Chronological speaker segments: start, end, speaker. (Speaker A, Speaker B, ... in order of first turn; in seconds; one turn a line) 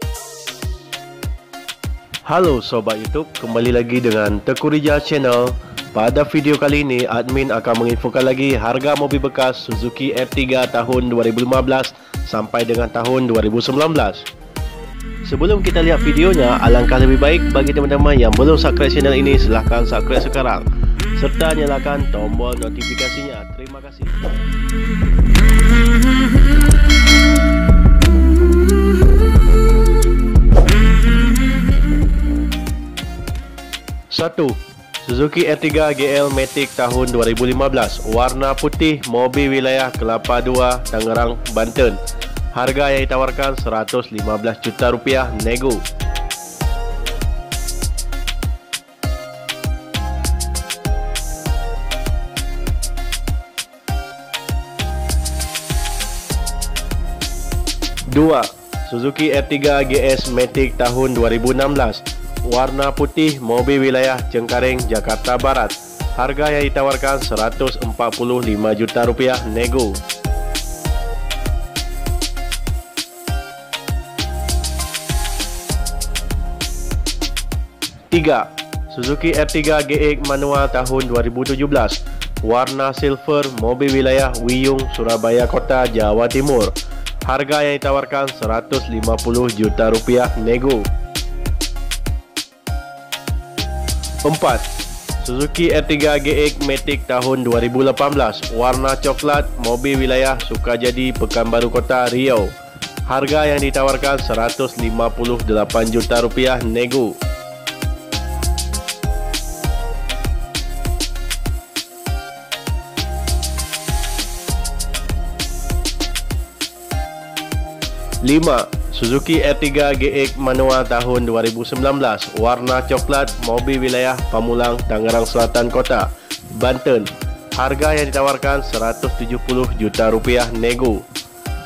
Speaker A: 2.3-14.3
Speaker A: 15.3-24.3
Speaker A: 34.1-42.0
Speaker A: 42.5-45.8
Speaker A: 58.1-70.0
Speaker A: 78.1-86.7
Speaker A: 87.2-90.9
Speaker A: 94.2-94.7
Speaker A: 95.2-102.5
Speaker A: 103.1-107.2
Speaker A: 118.2-131.1